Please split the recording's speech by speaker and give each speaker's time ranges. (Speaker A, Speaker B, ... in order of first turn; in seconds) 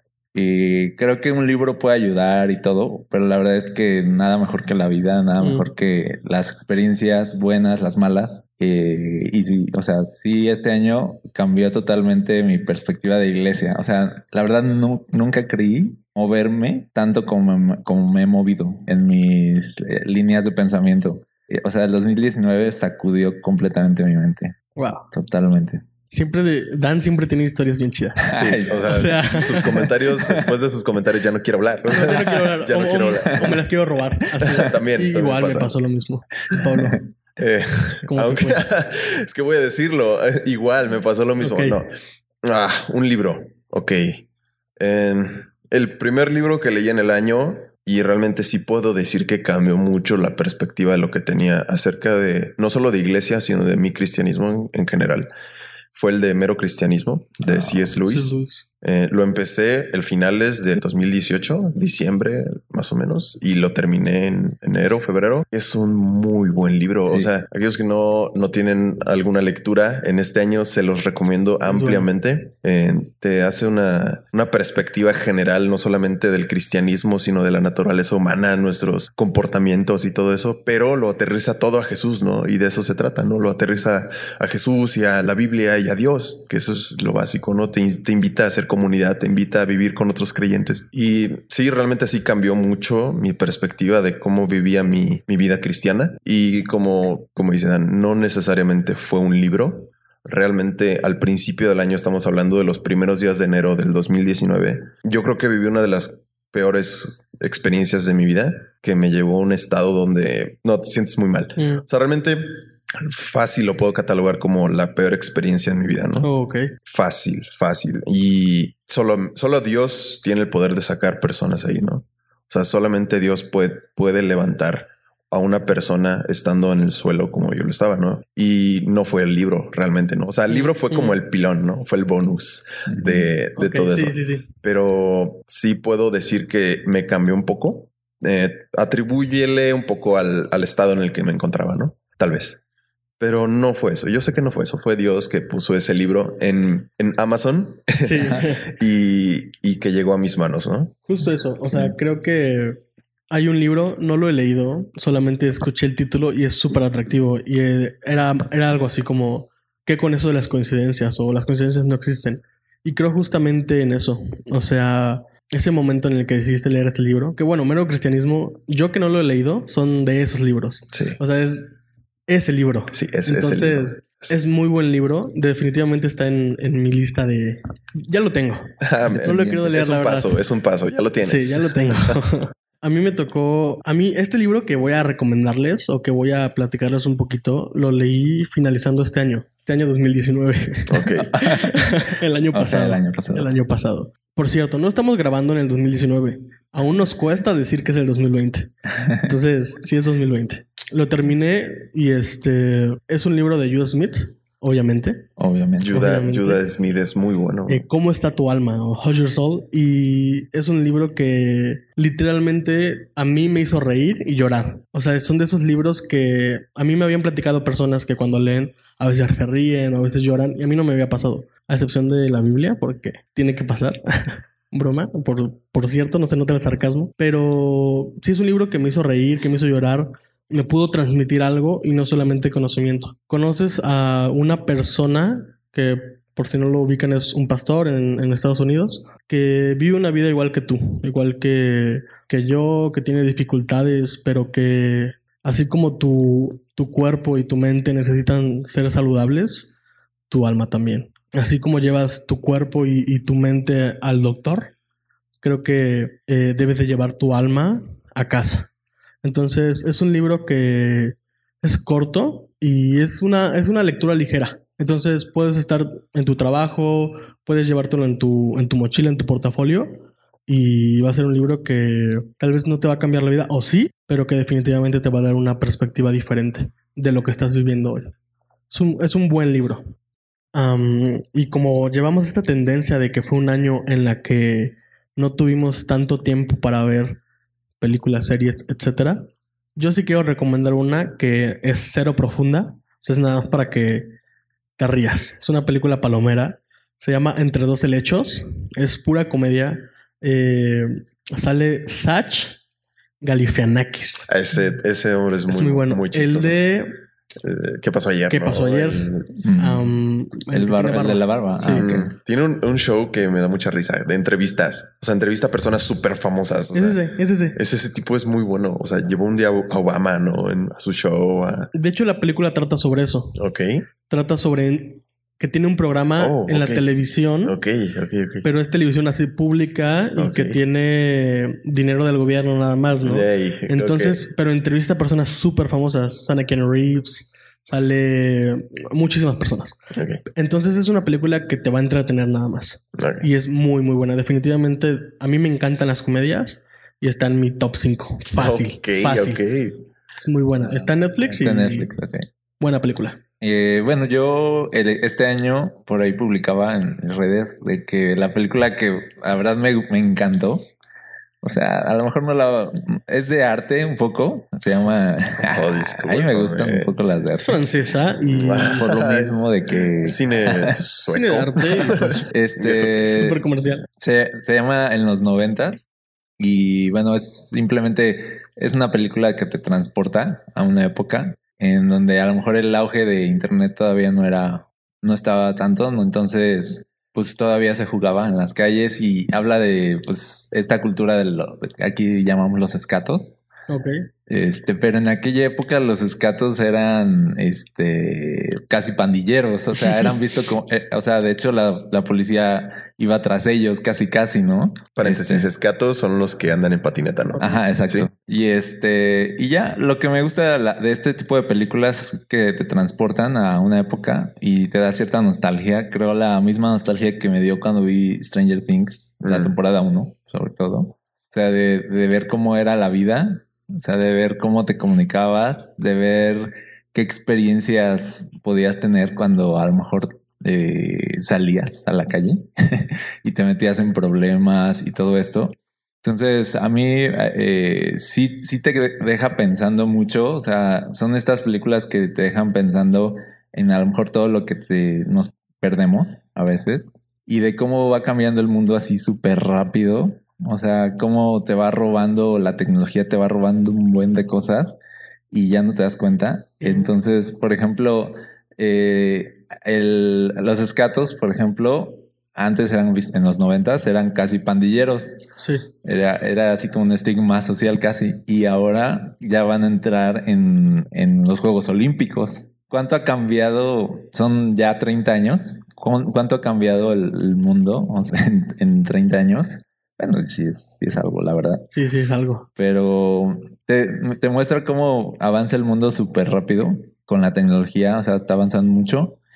Speaker A: 0.3-24.6, 25.1-25.8, 28.3-30.4, 36.6-37.0, 57.5-57.9, 132.9-133.3, 179.1-179.7, 191.3-191.8, 192.5-193.5, 199.0-199.3, 205.4-206.0, 309.4-312.1, 351.3-352.3, 353.4-360.7, 361.4-367.6, 368.8-370.8, 372.3-373.4, 374.0-375.9, 376.4-393.4, 394.3-405.5, 407.4-454.8, 455.3-465.2, 465.8-481.7, 482.6-489.2
Speaker B: 5.4-5.7, 24.8-25.1, 26.1-28.4, 28.9-29.6, 31.9-37.0, 38.1-38.6, 41.4-41.8, 58.0-58.6, 71.7-72.1, 111.6-111.8, 116.2-116.7, 130.5-131.2, 133.6-134.5, 148.0-148.7, 151.1-180.4, 181.2-205.2, 205.9-206.6, 207.7-249.7, 250.3-254.7, 255.4-258.7, 259.2-278.1, 278.7-279.9, 280.5-287.2, 287.8-294.1, 294.8-302.6, 303.2-304.3, 305.5-307.0, 308.3-311.9, 316.7-317.6, 321.7-323.4, 324.1-327.6, 328.4-349.4, 350.2-351.9, 352.6-353.2, 367.4-368.9, 371.1-372.2, 373.0-373.8, 393.7-394.0, 456.6-456.9, 465.4-465.7, 481.7-482.5
Speaker C: 28.3-33.6, 34.4-35.7, 37.4-44.2, 44.8-55.3, 55.9-116.3, 116.8-142.6, 143.2-151.0, 170.9-171.2, 172.9-174.3, 178.8-182.2, 190.9-191.3, 205.8-207.8, 304.3-306.6, 307.4-309.3, 311.7-317.0, 317.5-321.7, 323.4-323.9, 326.2-326.9, 327.4-328.5, 330.2-330.6, 333.0-334.2, 339.9-340.2, 342.9-343.3, 348.4-349.9, 365.4-366.9, 368.2-373.1, 405.0-408.1, 419.2-419.5